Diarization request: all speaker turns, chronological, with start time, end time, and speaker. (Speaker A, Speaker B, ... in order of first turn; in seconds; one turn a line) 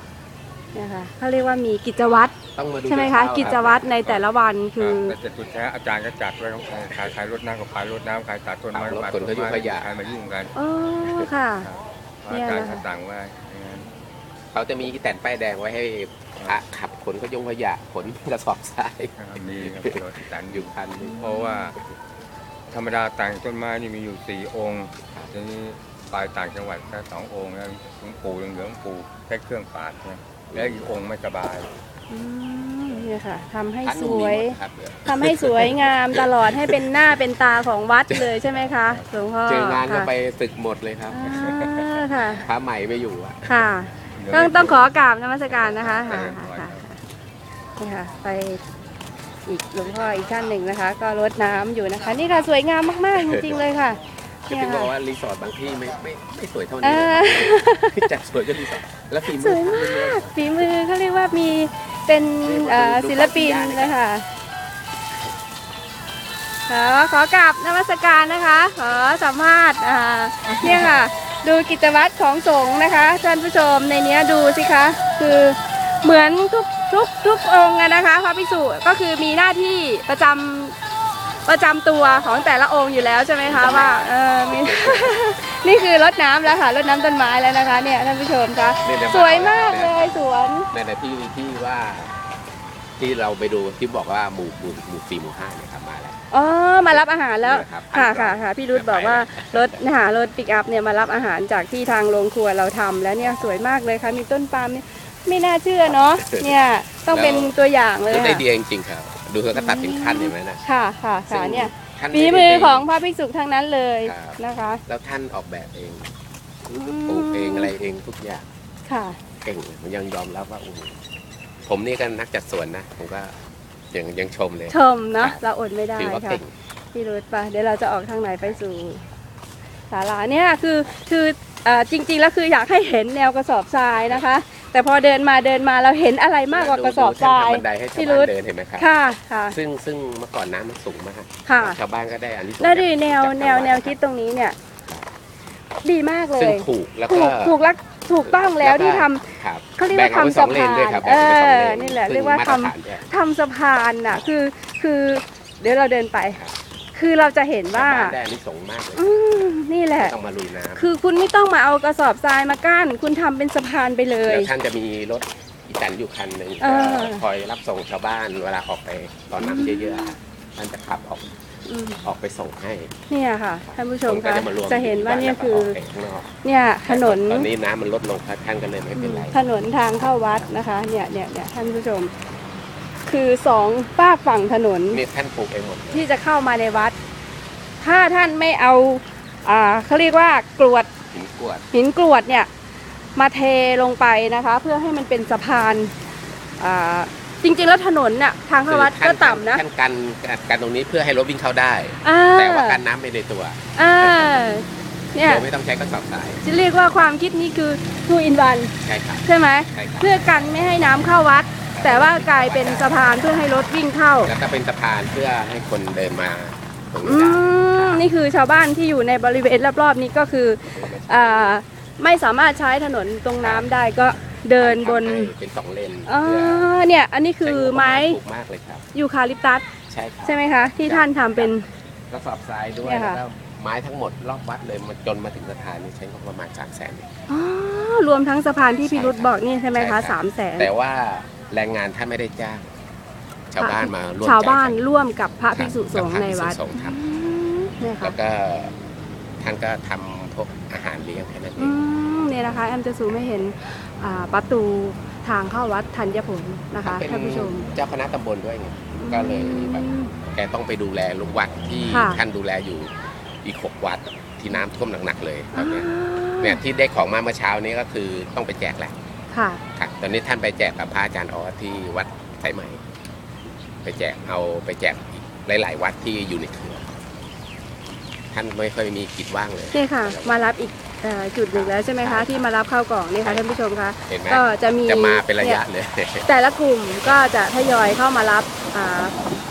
Speaker A: 0.7-5.2
Speaker B: 2.5-4.0
Speaker C: 3.4-4.2
Speaker C: 4.8-10.5
Speaker B: 6.7-7.1
Speaker B: 8.7-9.9
Speaker A: 10.5-11.7
Speaker C: 11.6-13.9
Speaker A: 12.3-12.8
Speaker B: 14.5-21.6
Speaker C: 19.2-21.8
Speaker C: 22.7-31.7
Speaker B: 30.5-30.8
Speaker A: 32.1-40.1
Speaker B: 33.8-36.8
Speaker B: 38.1-38.3
Speaker B: 39.5-41.4
Speaker A: 41.1-42.5
Speaker C: 41.2-42.0
Speaker B: 42.3-43.7
Speaker A: 43.5-47.0
Speaker C: 44.1-44.8
Speaker B: 44.3-44.7
Speaker B: 45.8-46.1
Speaker C: 45.9-46.8
Speaker A: 47.8-48.6
Speaker A: 49.5-54.9
Speaker B: 53.1-53.7
Speaker B: 54.5-60.3
Speaker A: 56.8-58.1
Speaker A: 59.2-64.2
Speaker B: 62.4-64.0
Speaker A: 66.7-80.7
Speaker A: 81.5-90.7
Speaker B: 83.4-85.2
Speaker B: 88.8-92.2
Speaker B: 93.0-96.2
Speaker A: 96.3-108.4
Speaker B: 96.9-99.8
Speaker B: 105.9-106.6
Speaker B: 107.1-107.5
Speaker B: 108.1-110.6
Speaker A: 109.5-114.8
Speaker B: 111.3-112.8
Speaker B: 114.0-116.1
Speaker A: 116.7-117.7
Speaker B: 117.1-118.5
Speaker A: 118.9-119.2
Speaker B: 119.4-121.0
Speaker B: 121.7-123.3
Speaker B: 123.9-125.4
Speaker A: 124.7-126.4
Speaker B: 126.0-126.5
Speaker A: 126.9-129.0
Speaker A: 129.9-139.6
Speaker B: 134.0-134.2
Speaker B: 136.5-138.9
Speaker B: 139.5-143.9
Speaker A: 141.4-141.8
Speaker A: 142.6-144.6
Speaker A: 145.8-156.4
Speaker B: 146.3-147.5
Speaker B: 148.2-153.1
Speaker A: 156.9-158.2
Speaker B: 157.7-160.9
Speaker A: 159.0-160.1
Speaker A: 160.8-164.5
Speaker B: 164.2-171.3
Speaker A: 166.6-167.2
Speaker A: 169.4-170.1
Speaker A: 171.7-172.0
Speaker B: 172.0-172.9
Speaker A: 173.1-175.8
Speaker B: 174.0-176.3
Speaker A: 176.4-177.5
Speaker B: 176.9-179.4
Speaker A: 178.9-182.1
Speaker A: 183.1-185.0
Speaker B: 184.9-186.1
Speaker A: 185.9-186.9
Speaker A: 187.8-190.9
Speaker B: 191.1-191.7
Speaker A: 191.7-192.5
Speaker A: 193.2-195.9
Speaker A: 196.6-199.6
Speaker B: 198.6-204.5
Speaker A: 202.0-202.8
Speaker A: 203.8-205.4
Speaker B: 205.2-206.4
Speaker A: 206.4-208.7
Speaker B: 208.8-210.4
Speaker A: 209.2-214.3
Speaker B: 211.7-213.2
Speaker B: 214.2-217.9
Speaker A: 217.0-225.3
Speaker B: 220.7-221.6
Speaker B: 223.4-223.7
Speaker B: 224.6-226.7
Speaker A: 226.1-228.2
Speaker B: 227.4-228.8
Speaker A: 228.9-229.7
Speaker B: 229.9-231.5
Speaker A: 230.2-231.6
Speaker B: 232.1-237.1
Speaker A: 232.8-233.2
Speaker A: 237.3-240.7
Speaker B: 238.8-242.7
Speaker B: 243.5-244.8
Speaker A: 243.6-248.2
Speaker B: 245.5-247.0
Speaker B: 248.0-248.7
Speaker B: 249.4-251.8
Speaker A: 251.6-257.7
Speaker B: 256.8-268.9
Speaker A: 259.0-260.1
Speaker A: 261.9-262.2
Speaker A: 265.5-266.6
Speaker A: 269.3-269.6
Speaker B: 269.7-272.8
Speaker B: 273.8-276.9
Speaker B: 278.3-280.4
Speaker A: 279.7-285.6
Speaker B: 281.5-282.4
Speaker B: 284.1-286.3
Speaker A: 286.2-289.2